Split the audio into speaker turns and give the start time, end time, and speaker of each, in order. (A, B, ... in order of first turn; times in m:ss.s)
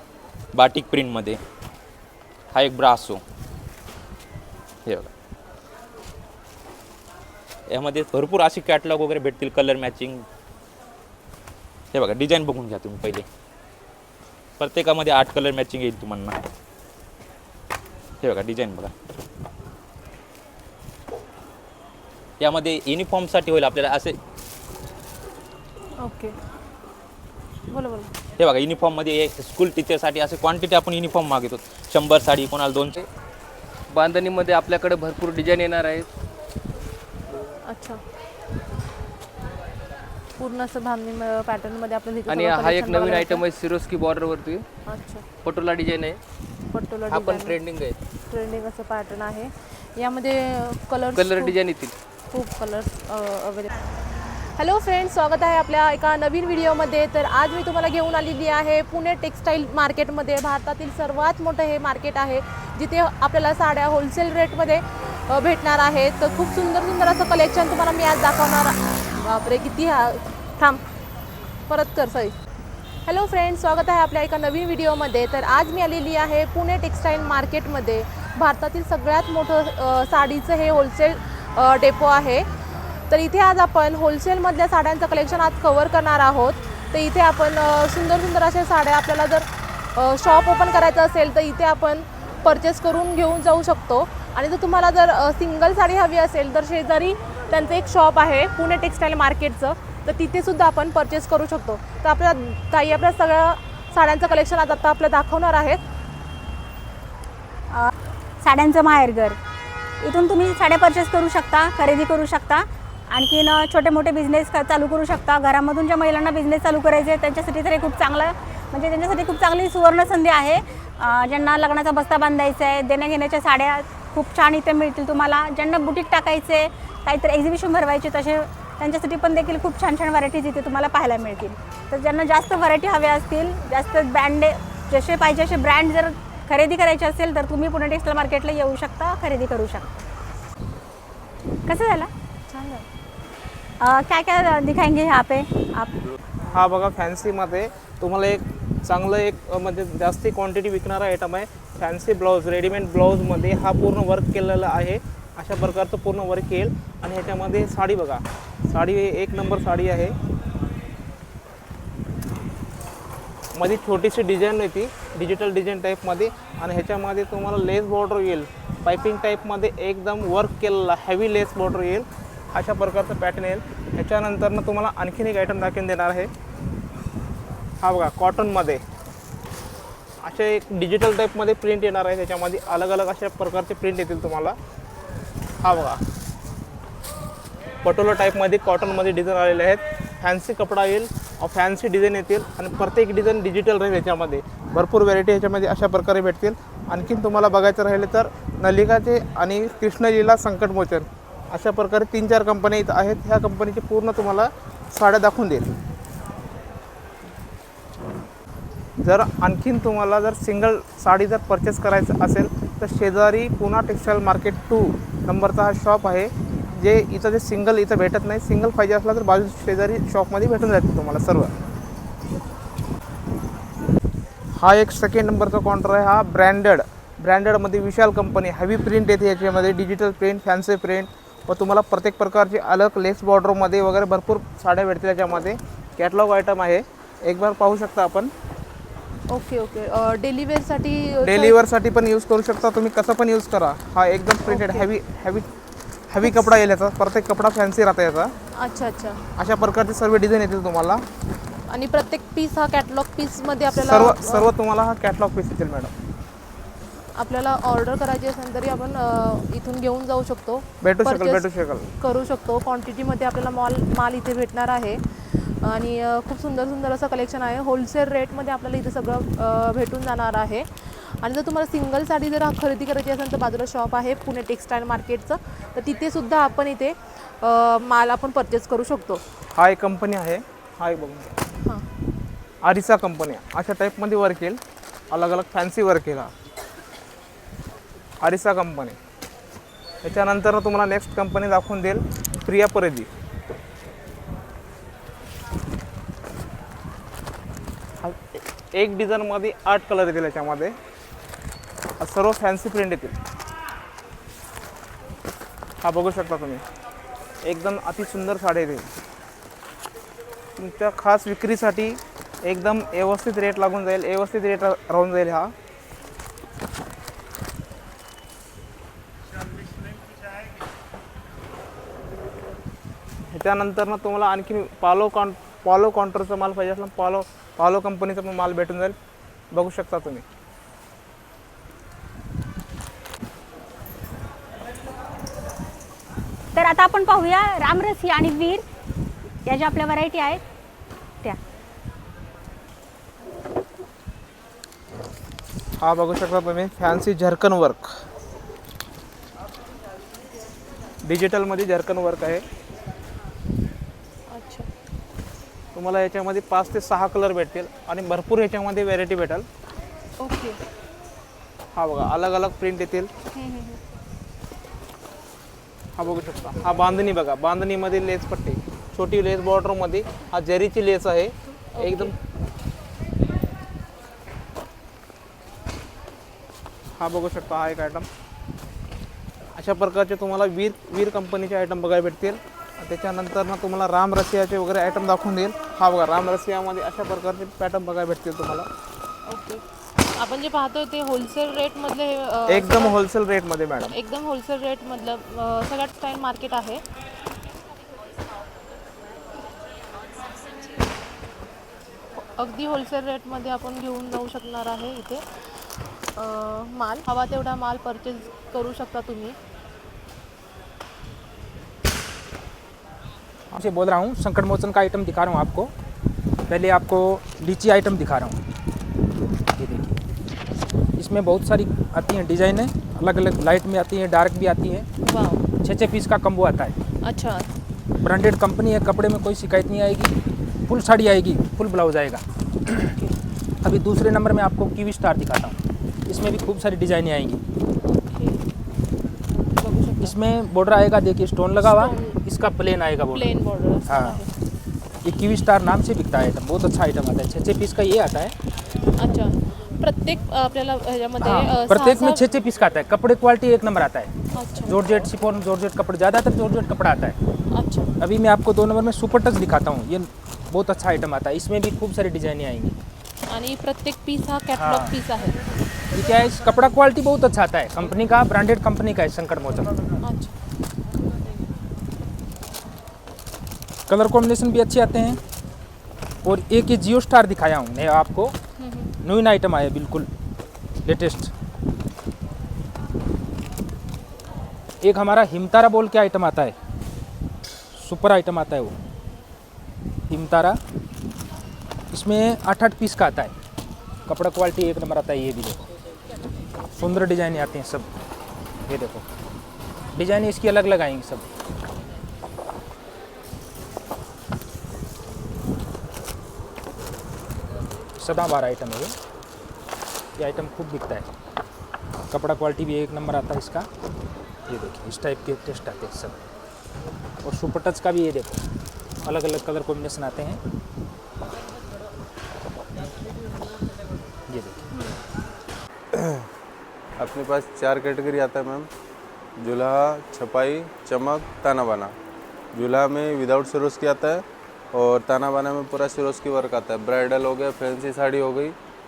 0:00.5-0:01.4 A
0:02.5-0:03.2 A
0:07.7-0:10.2 A
0:11.9-0:13.2 A
0:14.6-0:16.4 A
0:18.2-0:18.9 A
0:22.4-0:24.1 A
0:26.0-0:26.3 B
0:27.7-0:28.1 B
0:28.4-0:33.0 A
0:33.9-0:36.1 C
0:37.6-0:38.0 B
0:40.4-0:43.4 B
0:42.3-0:44.6 C
0:44.9-0:45.2 B
0:45.4-0:46.2 C
0:46.7-0:47.6 B
0:47.1-0:48.0 C
0:48.3-0:51.5 B
0:51.1-0:51.9 C
0:52.3-0:53.7 B
0:54.6-1:10.8 B
1:11.7-1:12.3 B
1:13.0-1:22.5 B
1:23.1-1:45.8 B
1:47.7-1:49.4 D
1:50.0-2:20.0 D
2:21.7-2:22.1 D
2:22.5-2:22.8 B
2:23.8-2:25.9 D
2:26.5-2:40.1 E
2:43.5-2:56.3 E
2:57.8-2:58.8 E
3:00.2-3:04.6 E
3:05.6-3:06.0 E
3:07.8-3:25.7 E
3:29.0-3:41.5 E
3:44.6-3:58.3 E
3:59.3-4:01.6 B
4:01.2-4:05.5 E
4:04.5-4:04.8 B
4:06.1-4:08.3 E
4:06.2-4:06.5 B
4:08.6-4:09.2 B
4:09.4-4:11.0 E
4:11.7-4:14.5 B
4:13.7-4:15.9 E
4:17.2-4:21.5 B
4:20.8-4:21.9 E
4:22.0-4:39.2 B
4:39.5-4:41.4 E
4:41.6-4:41.8 B
4:42.6-4:44.6 E
4:45.1-4:46.3 E
4:48.2-4:49.0 E
4:50.0-4:53.1 E
4:58.0-5:00.7 E
5:02.0-5:03.2 E
5:05.8-5:06.6 E
5:07.4-5:08.9 E
5:10.6-5:15.5 E
5:23.3-5:28.9 E
5:29.5-5:30.2 E
5:36.5-5:38.6 D
5:39.4-5:40.4 D
5:45.8-5:47.9 E
5:51.0-5:52.4 E
5:54.3-5:54.7 B
5:55.7-5:59.4 E
6:00.2-6:00.6 B
6:01.7-6:03.1 E
6:03.4-6:03.8 B
6:06.0-6:12.1 E
6:11.8-6:12.1 B
6:17.0-6:18.1 E
6:19.6-6:28.7 E
6:29.3-6:29.6 B
6:30.2-6:33.0 B
6:32.5-6:33.9 E
6:33.9-6:36.8 B
6:42.2-6:49.4 B
6:53.6-6:55.7 F
6:56.5-6:58.4 F
6:59.6-7:00.0 F
7:01.0-7:04.9 F
7:05.0-7:05.4 B
7:05.6-7:06.8 F
7:07.0-7:07.5 B
7:08.0-7:10.1 F
7:10.7-7:12.9 F
7:13.6-7:17.4 F
7:17.8-7:18.4 B
7:19.6-7:20.1 B
7:20.0-7:23.3 F
7:21.6-7:22.2 B
7:23.1-7:24.3 B
7:23.9-7:24.2 F
7:25.0-7:28.3 F
7:29.0-7:32.2 B
7:31.2-7:34.1 F
7:34.3-7:34.8 B
7:34.6-7:37.2 F
7:37.5-7:37.9 B
7:38.0-7:42.7 F
7:43.3-7:45.4 B
7:44.5-7:44.9 F
7:45.9-7:49.9 F
7:50.0-7:50.3 B
7:53.9-7:55.2 F
7:56.2-7:58.4 F
7:58.6-7:58.9 B
7:59.0-8:00.1 F
8:00.8-8:01.3 F
8:04.8-8:06.5 F
8:07.7-8:08.7 F
8:10.1-8:10.6 F
8:11.9-8:13.3 F
8:14.0-8:15.6 F
8:16.7-8:17.9 F
8:18.7-8:19.0 F
8:19.9-8:21.3 F
8:28.0-8:28.9 F
8:30.2-8:31.1 F
8:32.1-8:33.7 F
8:34.5-8:36.2 F
8:37.2-8:38.4 F
8:39.0-8:40.4 F
8:44.3-8:44.7 F
8:45.9-8:46.2 G
8:47.0-8:48.7 G
8:49.4-8:51.9 G
8:52.5-8:58.5 G